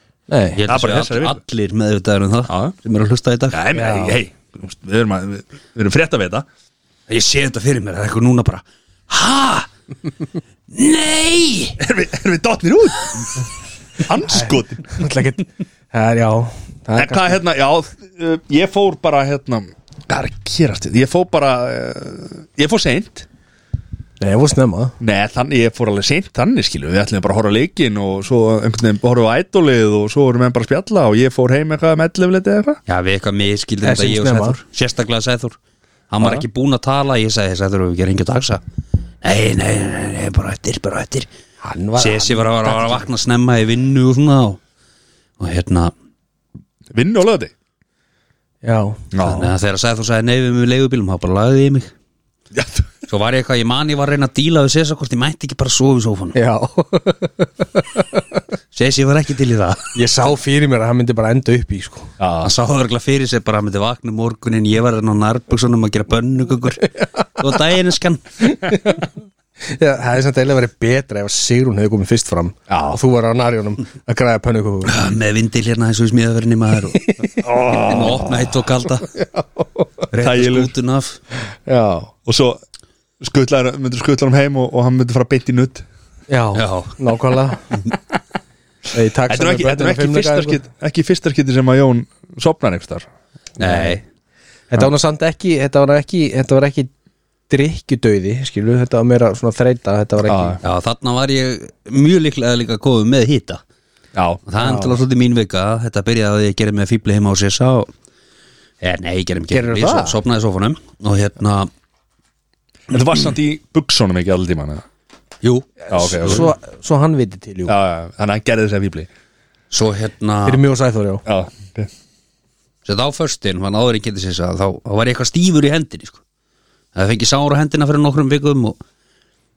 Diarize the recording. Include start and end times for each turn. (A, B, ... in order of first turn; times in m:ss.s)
0:00.3-0:00.6 A
0:00.6-0:03.6 B
0:00.7-0:01.4 C
0:02.5-0:02.7 C
0:03.5-0:06.4 C
0:03.7-0:04.2 A
0:07.1-0:09.7 B
0:10.7-0:11.8 B
0:11.8-0:15.1 C
0:14.2-0:17.4 A
0:16.9-0:23.2 C
0:24.2-0:25.0 A
0:25.0-0:32.8 C
0:32.9-0:35.6 B
0:33.8-0:34.6 A
0:36.1-0:38.6 B
0:39.2-0:41.3 B
0:41.6-0:43.1 A
0:42.0-0:44.6 B
0:45.4-0:45.9 B
0:46.9-0:47.5 C
0:48.6-0:49.0 A
0:49.1-0:49.5 C
0:49.2-0:51.9 B
0:52.5-0:52.9 C
0:53.1-0:56.4 B
0:56.3-0:58.2 A
0:58.7-1:00.0 B
0:59.9-1:02.1 A
1:02.2-1:02.5 C
1:02.4-1:06.8 B
1:06.8-1:07.1 A
1:07.4-1:08.2 B
1:08.4-1:09.0 A
1:09.6-1:15.0 A
1:12.7-1:13.0 C
1:14.8-1:19.1 B
1:17.4-1:18.6 C
1:19.1-1:20.1 A
1:20.1-1:21.2 B
1:20.1-1:20.7 C
1:21.7-1:22.1 A
1:22.2-1:22.6 C
1:23.2-1:25.8 C
1:26.3-1:27.7 A
1:26.5-1:27.0 B
1:28.9-1:30.6 A
1:29.3-1:33.1 C
1:33.6-1:34.0 A
1:33.6-1:34.0 B
1:34.7-1:36.9 A
1:37.5-1:40.6 A
1:40.2-1:40.6 C
1:40.6-1:43.6 B
1:44.1-1:44.4 C
1:44.5-1:47.9 B
1:44.6-1:45.0 A
1:48.8-1:51.7 B
1:49.5-1:50.2 A
1:52.9-1:54.8 C
1:55.4-1:56.5 B
1:55.9-1:57.7 A
1:55.9-1:56.5 C
1:57.7-1:59.1 C
1:59.7-2:00.6 B
2:00.4-2:01.2 A
2:01.2-2:01.9 C
2:02.8-2:06.2 B
2:06.9-2:08.8 B